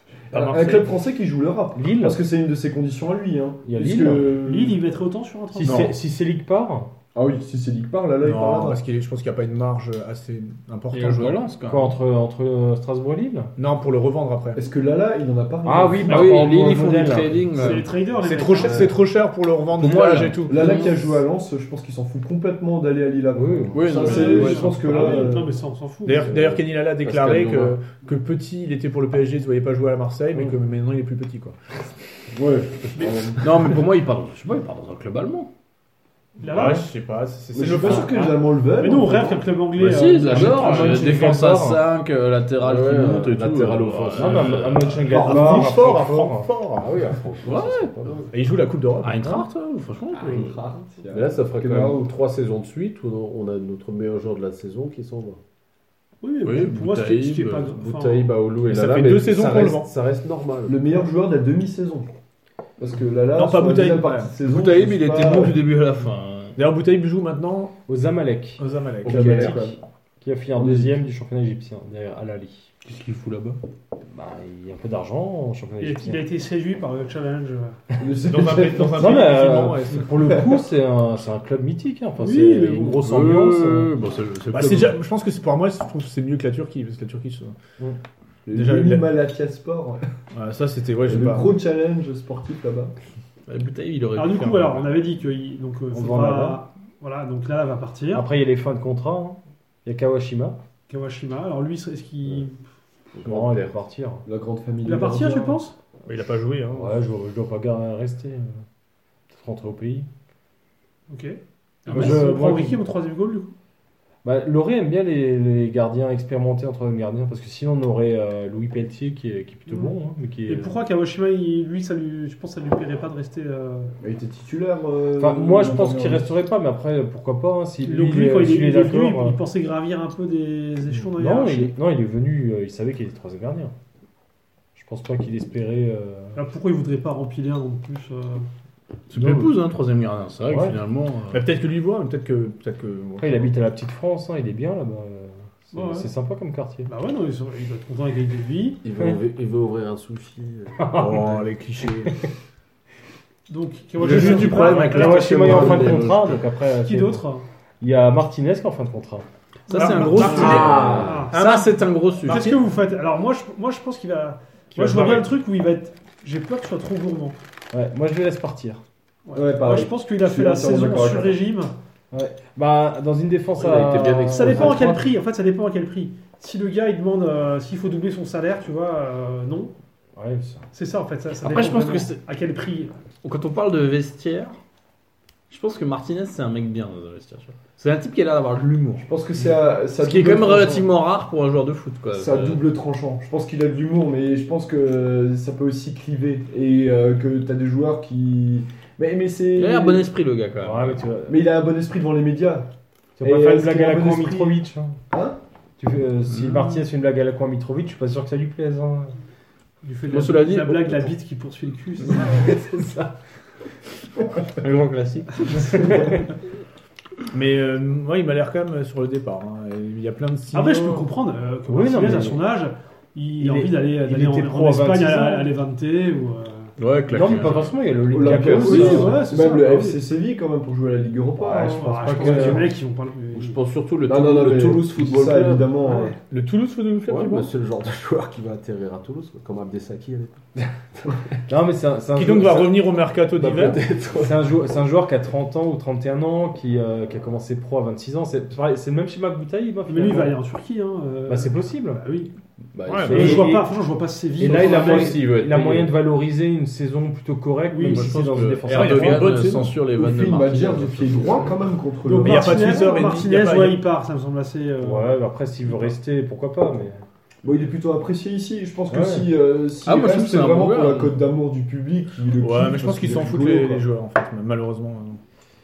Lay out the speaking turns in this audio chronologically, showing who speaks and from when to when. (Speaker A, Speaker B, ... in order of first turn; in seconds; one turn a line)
Speaker A: 0.3-0.8
Speaker B: 0.3-4.8
Speaker C: 1.8-2.2
Speaker C: 3.6-4.3
Speaker D: 4.3-5.9
Speaker C: 5.5-6.9
Speaker E: 5.7-5.9
Speaker B: 7.2-8.8
Speaker E: 8.2-11.4
Speaker A: 10.9-11.9
Speaker C: 11.7-13.5
Speaker E: 13.6-14.6
Speaker B: 14.6-16.5
Speaker C: 15.7-17.8
Speaker A: 16.1-17.9
Speaker D: 17.5-19.0
Speaker E: 17.6-20.9
Speaker A: 19.8-21.0
Speaker B: 20.5-25.6
Speaker C: 23.4-24.1
Speaker A: 23.7-25.2
Speaker D: 23.9-26.3
Speaker E: 26.1-31.6
Speaker F: 26.3-27.8
Speaker B: 32.3-33.6
Speaker A: 33.4-35.5
Speaker D: 36.4-36.9
Speaker E: 36.4-38.2
Speaker B: 37.5-39.5
Speaker D: 37.7-41.2
Speaker A: 39.8-44.9
Speaker C: 40.3-41.8
Speaker F: 40.8-41.2
Speaker F: 42.6-45.0
Speaker C: 44.1-46.5
Speaker B: 45.1-45.8
Speaker E: 45.1-46.9
Speaker F: 46.8-48.3
Speaker A: 47.5-47.9
Speaker E: 48.3-49.5
Speaker A: 49.0-50.6
Speaker B: 50.3-52.1
Speaker F: 51.1-55.4
Speaker D: 56.2-58.4
Speaker A: 56.4-57.7
Speaker F: 57.7-60.8
Speaker E: 58.7-59.9
Speaker B: 60.7-62.1
Speaker B: 62.8-65.6
Speaker E: 63.4-64.3
Speaker A: 64.4-66.6
Speaker E: 66.6-67.7
Speaker C: 67.9-72.7
Speaker E: 68.6-69.6
Speaker B: 69.0-69.8
Speaker B: 70.6-71.0
Speaker A: 72.8-73.6
Speaker C: 74.1-76.2
Speaker D: 75.8-77.8
Speaker B: 78.0-79.3
Speaker E: 78.2-80.3
Speaker C: 78.9-83.9
Speaker B: 80.3-80.6
Speaker D: 82.2-83.0
Speaker A: 82.9-85.0
Speaker E: 84.5-87.6
Speaker B: 88.5-90.0
Speaker E: 88.5-89.1
Speaker E: 90.3-91.5
Speaker B: 91.0-92.9
Speaker A: 93.5-95.0
Speaker D: 94.2-98.3
Speaker C: 95.9-96.6
Speaker C: 98.1-100.6
Speaker D: 100.9-102.6
Speaker F: 103.1-103.8
Speaker C: 103.2-104.2
Speaker B: 104.3-105.6
Speaker D: 104.8-105.8
Speaker A: 106.1-106.9
Speaker C: 106.7-108.6
Speaker C: 109.3-110.1
Speaker D: 111.1-113.5
Speaker C: 111.9-112.8
Speaker C: 114.2-120.8
Speaker D: 119.7-119.9
Speaker D: 120.5-123.9
Speaker B: 124.0-126.3
Speaker C: 125.2-129.4
Speaker D: 127.8-131.8
Speaker C: 131.1-133.7
Speaker C: 134.8-136.4
Speaker D: 136.3-138.5
Speaker A: 139.1-141.5
Speaker C: 139.1-139.5
Speaker C: 140.5-140.8
Speaker E: 141.3-143.5
Speaker C: 143.2-146.9
Speaker D: 145.7-146.1
Speaker D: 146.9-148.8
Speaker F: 148.8-151.2
Speaker C: 150.8-151.4
Speaker E: 151.0-152.2
Speaker D: 153.5-156.0
Speaker A: 154.0-156.3
Speaker E: 154.0-154.9
Speaker F: 154.1-156.4
Speaker C: 154.1-157.2
Speaker D: 156.7-157.5
Speaker C: 157.8-159.2
Speaker D: 159.7-161.4
Speaker E: 159.7-162.6
Speaker A: 159.7-162.5
Speaker F: 160.4-161.3
Speaker D: 162.2-167.4
Speaker C: 164.7-165.3
Speaker C: 167.7-168.8
Speaker D: 169.3-171.7
Speaker B: 169.3-171.4
Speaker C: 172.1-175.0
Speaker F: 173.6-175.0
Speaker D: 174.3-179.7
Speaker C: 180.2-180.7
Speaker D: 180.7-182.9
Speaker A: 181.4-182.2
Speaker A: 183.2-184.6
Speaker A: 185.5-189.1
Speaker B: 189.0-190.9
Speaker A: 190.0-192.6
Speaker B: 192.1-200.1
Speaker A: 199.6-201.0
Speaker C: 200.6-201.4
Speaker B: 201.3-202.7
Speaker C: 203.2-205.0
Speaker B: 203.2-205.4
Speaker C: 205.8-209.2
Speaker A: 206.4-206.8
Speaker D: 209.8-212.5
Speaker A: 210.1-210.8
Speaker C: 212.4-213.1
Speaker A: 214.6-216.1
Speaker C: 215.5-216.2
Speaker E: 217.3-221.1
Speaker D: 220.5-226.7
Speaker C: 221.7-222.4
Speaker C: 223.4-225.5
Speaker A: 226.8-227.8
Speaker C: 227.1-229.2
Speaker E: 227.2-227.7
Speaker B: 228.1-232.6
Speaker D: 228.3-230.0
Speaker C: 231.4-232.7
Speaker D: 231.6-233.6
Speaker F: 233.3-235.8
Speaker B: 234.1-236.2
Speaker D: 235.9-236.2
Speaker E: 236.3-237.5
Speaker F: 237.1-240.4
Speaker C: 241.5-242.8
Speaker E: 242.2-243.9
Speaker F: 243.4-244.4
Speaker C: 244.2-250.3
Speaker D: 249.9-252.3
Speaker C: 251.3-252.0
Speaker F: 252.8-253.6
Speaker E: 252.9-253.4
Speaker C: 253.1-253.6
Speaker D: 253.1-255.2
Speaker F: 254.4-255.9
Speaker C: 254.4-259.3
Speaker D: 257.7-258.1
Speaker F: 258.0-258.7
Speaker A: 258.6-261.5
Speaker E: 258.6-259.7
Speaker B: 259.9-263.0
Speaker F: 261.0-261.5
Speaker D: 262.0-265.9
Speaker E: 262.2-263.8
Speaker C: 264.8-267.0
Speaker B: 267.4-273.8
Speaker C: 268.9-269.3
Speaker A: 269.8-271.2
Speaker E: 272.4-275.2